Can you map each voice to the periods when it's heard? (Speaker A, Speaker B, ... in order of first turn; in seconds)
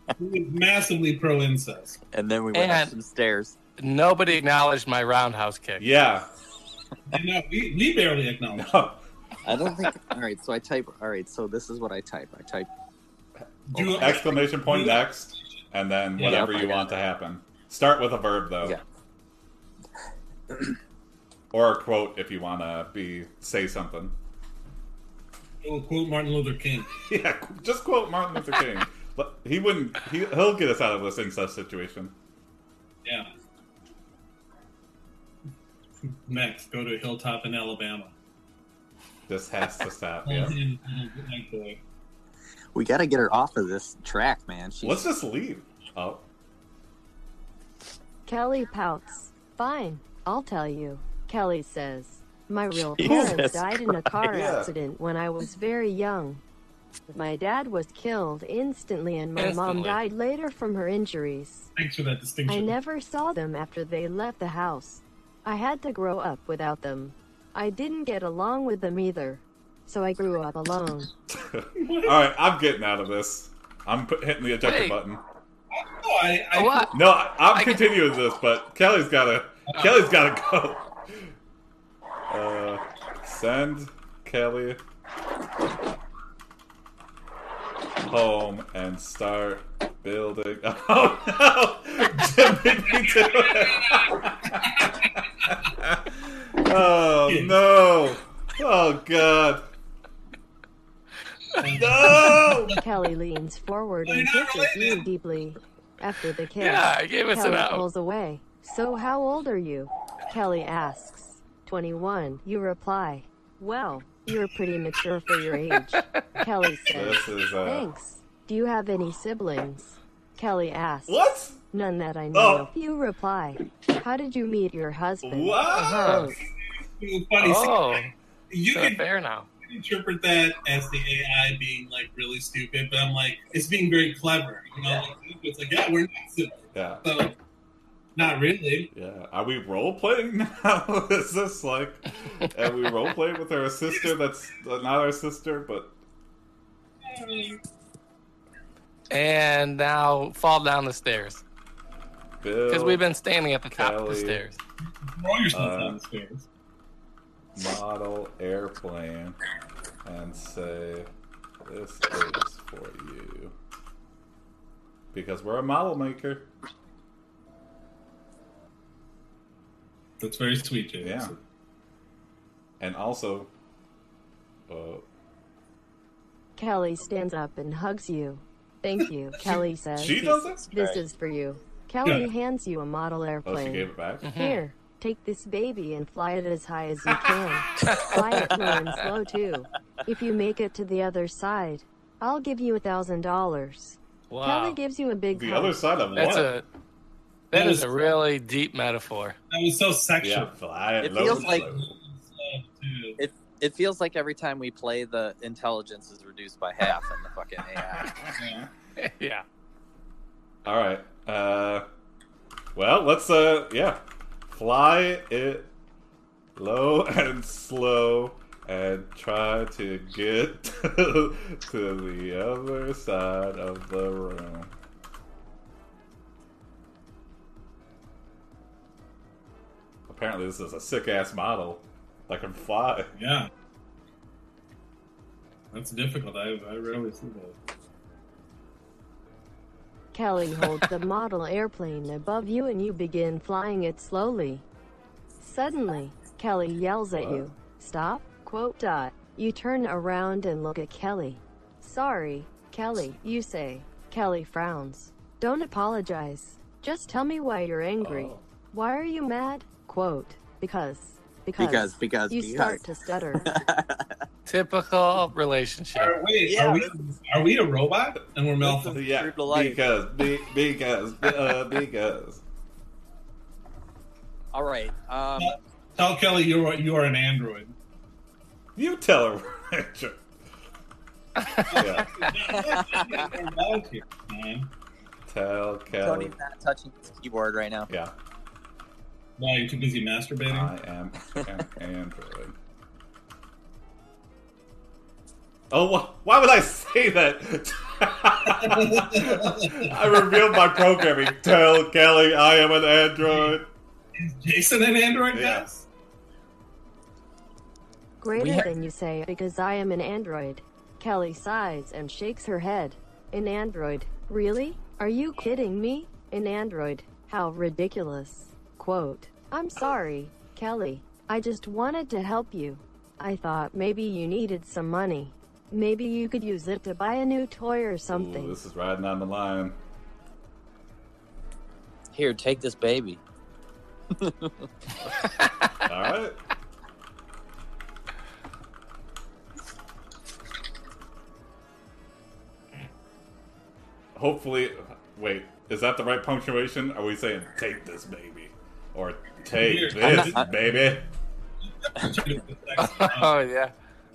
Speaker A: 0.2-2.0, 7.1-8.8, 13.7-15.4, 16.2-16.6, 25.6-27.0, 33.0-33.3, 36.3-38.1, 40.2-41.8, 61.8-62.7, 71.8-72.2, 75.7-76.9, 79.7-80.0, 92.7-95.6, 97.3-97.6, 101.6-102.8, 104.0-105.1, 126.2-129.0, 129.6-137.4, 138.2-138.9, 147.0-147.6, 155.2-156.5, 170.2-171.4, 182.0-182.3, 197.5-198.1, 199.5-200.5, 201.2-203.2, 208.4-208.7, 233.2-233.5, 235.7-237.6, 265.9-269.0, 275.4-277.8, 281.7-284.7, 289.4-290.7, 298.4-299.9, 303.2-303.6, 304.2-305.9, 349.6-351.0, 351.7-353.4
Speaker B: 2.1-3.6, 9.4-12.7, 13.9-14.2, 16.2-17.0, 42.8-45.1, 52.9-54.1, 180.7-181.0, 188.2-188.8, 201.0-201.7, 203.2-208.2, 261.6-262.9, 263.4-264.2, 266.4-267.0, 268.6-269.8, 274.5-275.6, 282.6-283.3, 286.0-287.9, 308.4-308.7, 332.1-333.2, 334.2-334.7, 350.0-350.5
Speaker C: 2.5-2.9, 3.8-5.9, 59.4-60.0, 74.6-75.0, 76.5-76.9, 77.5-77.9, 106.6-107.9, 125.7-126.3, 127.4-128.1, 128.7-129.5, 149.1-151.4, 152.7-154.6, 184.2-184.6, 194.3-194.8, 196.2-196.7, 197.5-199.4, 209.0-209.4, 264.5-266.2, 352.8-353.7
Speaker D: 5.8-6.3, 8.6-9.0, 13.7-18.8, 21.5-24.2, 27.1-32.2, 39.3-40.6, 44.8-46.2, 54.3-54.7, 71.3-75.2, 76.9-81.3, 82.3-84.8, 88.0-94.8, 95.5-99.7, 101.8-102.8, 116.9-117.9, 121.1-121.6, 122.3-122.7, 125.2-126.3, 136.7-137.0, 138.9-146.0, 152.4-153.0, 153.7-154.4, 155.5-156.0, 157.6-159.4, 160.0-161.1, 161.6-163.5, 165.1-166.5, 171.0-171.3, 172.8-173.5, 174.7-175.1, 180.0-180.7, 183.4-184.3, 187.1-188.0, 195.3-196.5, 200.2-201.9, 207.8-208.3, 210.7-211.9, 212.8-215.7, 216.6-224.7, 230.1-233.1, 247.1-247.4, 258.0-258.4, 268.9-272.4, 278.8-280.2, 281.8-282.2, 285.3-286.4, 290.5-292.6, 295.7-303.7, 305.3-305.7, 328.1-329.8, 335.9-336.4, 344.1-351.1
Speaker E: 48.3-56.4, 57.1-61.7, 62.5-71.1, 102.8-121.2, 121.7-126.5, 176.6-195.9, 240.1-244.7, 245.4-263.5, 308.2-328.6